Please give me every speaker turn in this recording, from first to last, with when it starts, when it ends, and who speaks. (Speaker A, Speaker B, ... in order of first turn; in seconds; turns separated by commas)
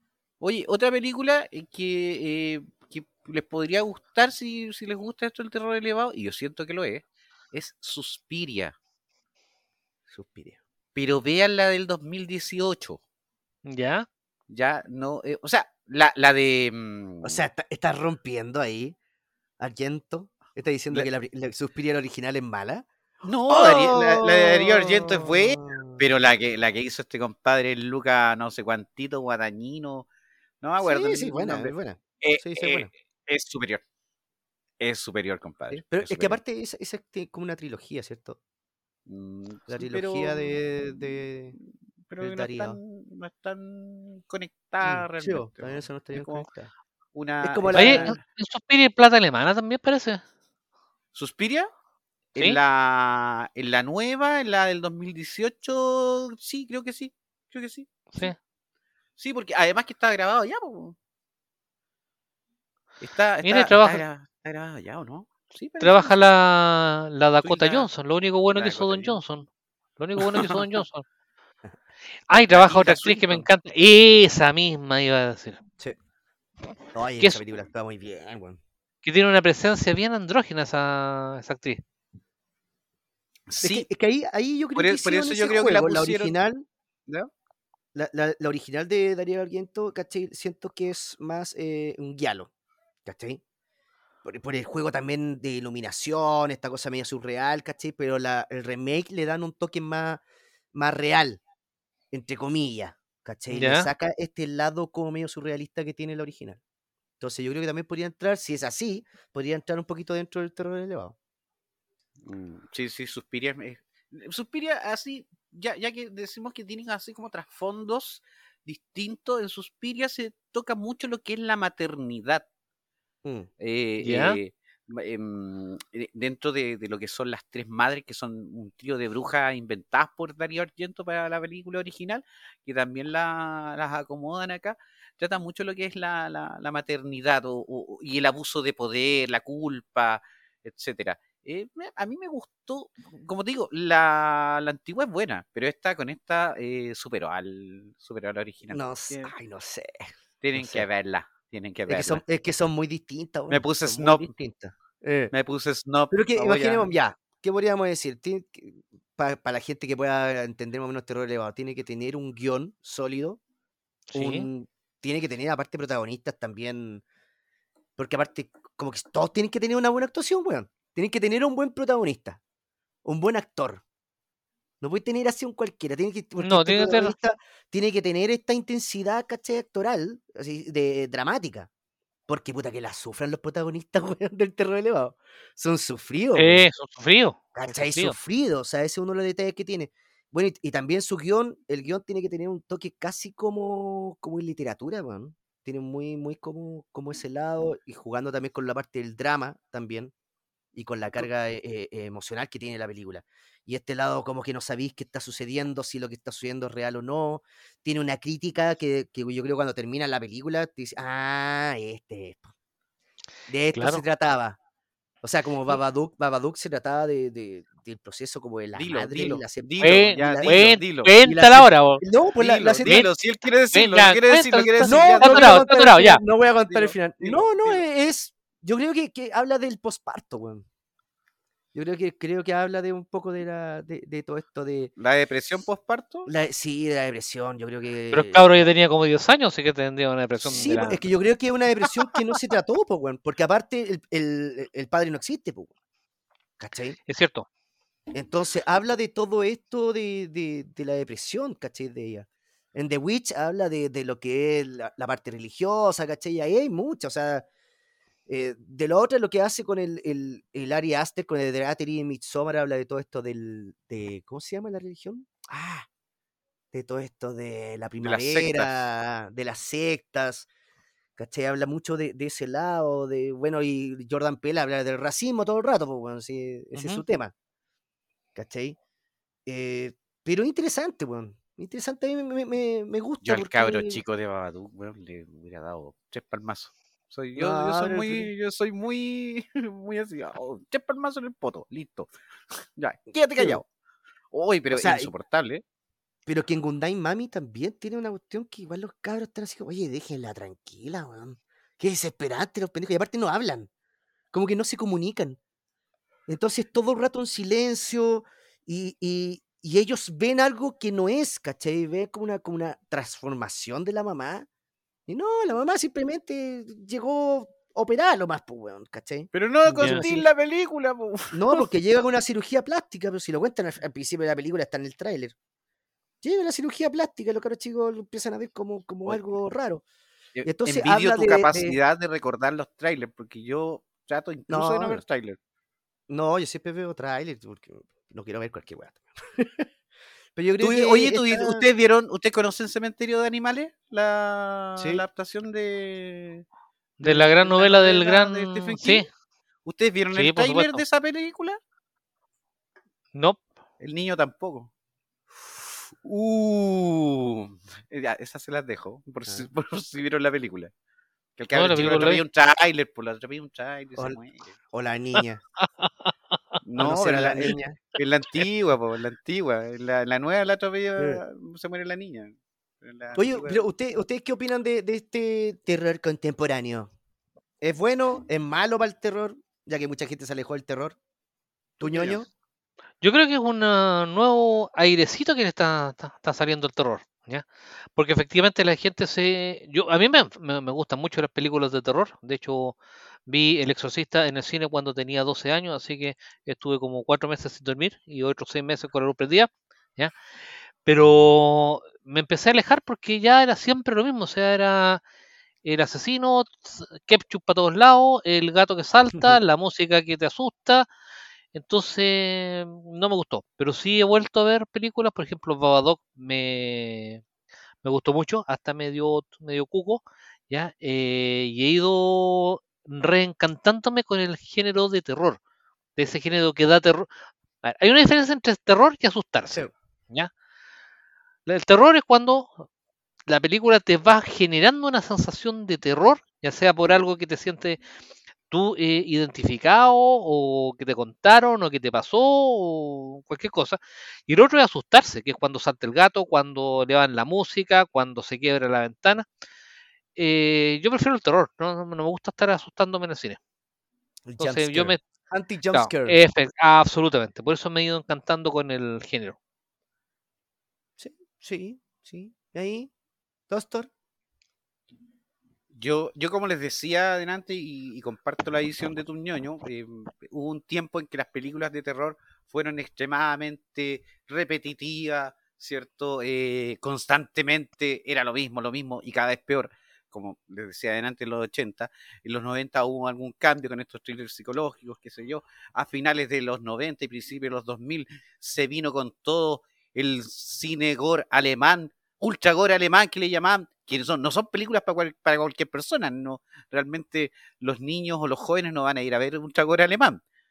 Speaker A: 0.4-8.8, Speaker B: 10.1-10.6, Speaker A: 10.9-13.0, Speaker C: 13.7-14.1, Speaker A: 14.5-17.4, Speaker B: 17.2-18.9, Speaker B: 19.6-22.9, Speaker A: 23.2-30.1, Speaker B: 23.5-26.0, Speaker A: 30.6-33.8, Speaker B: 30.8-32.9, Speaker A: 34.8-36.4, Speaker B: 35.7-38.4, Speaker A: 39.1-41.0, Speaker B: 39.7-41.5, Speaker A: 42.1-46.5, Speaker B: 42.2-42.8, Speaker B: 44.8-46.7, Speaker A: 47.1-48.2, Speaker B: 47.4-48.1, Speaker C: 47.7-50.2, Speaker A: 51.1-51.7, Speaker A: 52.3-58.3, Speaker A: 59.2-61.0, Speaker A: 63.0-66.0, Speaker C: 63.4-64.0, Speaker C: 65.8-71.0, Speaker A: 67.4-67.9, Speaker A: 68.5-69.2, Speaker C: 72.3-75.6, Speaker A: 72.5-73.5, Speaker B: 76.9-78.6, Speaker C: 79.0-81.8, Speaker A: 83.5-83.9, Speaker B: 83.6-86.7, Speaker A: 84.8-86.3, Speaker B: 87.9-92.5, Speaker B: 93.0-93.4, Speaker B: 94.2-100.2, Speaker B: 100.7-101.4, Speaker B: 102.1-106.6, Speaker C: 103.5-103.9, Speaker B: 107.2-111.2, Speaker A: 112.2-122.4, Speaker B: 123.2-123.5, Speaker A: 123.6-149.3, Speaker C: 124.0-124.4, Speaker B: 148.7-150.9, Speaker A: 150.4-152.2, Speaker B: 151.9-155.3, Speaker A: 153.5-154.3, Speaker A: 155.3-156.9, Speaker B: 156.1-163.4, Speaker C: 164.1-164.5, Speaker B: 164.1-167.0, Speaker B: 168.0-172.4, Speaker B: 173.0-173.8, Speaker B: 174.8-181.7, Speaker C: 176.4-177.1, Speaker B: 182.3-186.6, Speaker C: 186.3-188.2, Speaker B: 187.5-200.1, Speaker B: 200.7-212.5, Speaker B: 213.5-214.6, Speaker C: 213.7-214.0, Speaker B: 215.2-220.7, Speaker A: 218.7-221.1, Speaker C: 219.8-222.0, Speaker B: 221.2-223.0, Speaker A: 222.4-225.7, Speaker C: 222.8-223.1, Speaker C: 223.7-226.2, Speaker B: 224.8-230.6, Speaker A: 226.7-227.8, Speaker B: 231.7-234.9, Speaker A: 235.0-236.3, Speaker B: 236.2-238.6, Speaker C: 238.1-241.0, Speaker B: 240.4-245.7, Speaker B: 246.6-247.0, Speaker C: 247.1-247.4, Speaker B: 248.1-257.4, Speaker B: 258.3-265.9, Speaker B: 266.7-270.5, Speaker A: 268.0-268.7, Speaker B: 271.2-277.3, Speaker C: 276.7-277.0, Speaker B: 278.4-278.8, Speaker B: 279.4-284.0, Speaker A: 283.2-293.6, Speaker B: 287.4-288.3, Speaker A: 294.3-295.6, Speaker B: 294.7-295.1, Speaker B: 296.2-303.7, Speaker B: 304.3-305.4, Speaker B: 306.3-314.5, Speaker B: 315.1-320.3, Speaker A: 319.3-321.7, Speaker C: 319.8-320.0, Speaker B: 321.3-325.3, Speaker B: 326.2-329.8, Speaker A: 330.4-335.4, Speaker B: 330.4-331.8, Speaker B: 334.5-335.0, Speaker B: 336.1-339.7, Speaker B: 340.3-341.7, Speaker A: 340.6-346.4, Speaker B: 344.8-345.0, Speaker A: 347.0-349.1, Speaker C: 347.0-349.1, Speaker A: 349.6-351.6, Speaker C: 350.1-350.8, Speaker C: 353.1-353.4, Speaker A: 353.8-354.7, Speaker A: 356.0-360.7, Speaker A: 361.4-364.5, Speaker C: 361.5-362.2, Speaker B: 364.7-365.4, Speaker C: 365.6-366.1, Speaker A: 366.6-373.6, Speaker B: 366.8-367.8, Speaker B: 373.1-376.9, Speaker B: 377.6-380.9, Speaker A: 381.8-382.2, Speaker B: 381.8-382.3, Speaker C: 383.0-400.1, Speaker C: 400.8-405.0, Speaker C: 405.6-410.9, Speaker C: 411.5-417.2, Speaker C: 417.8-425.4, Speaker C: 425.9-427.1, Speaker C: 427.6-430.3, Speaker C: 431.4-432.6, Speaker C: 433.3-437.8, Speaker C: 438.5-449.2, Speaker C: 450.1-453.4, Speaker B: 454.3-456.2, Speaker C: 454.4-455.0, Speaker C: 455.7-459.4, Speaker B: 461.0-462.9, Speaker B: 463.5-463.9, Speaker A: 465.7-500.2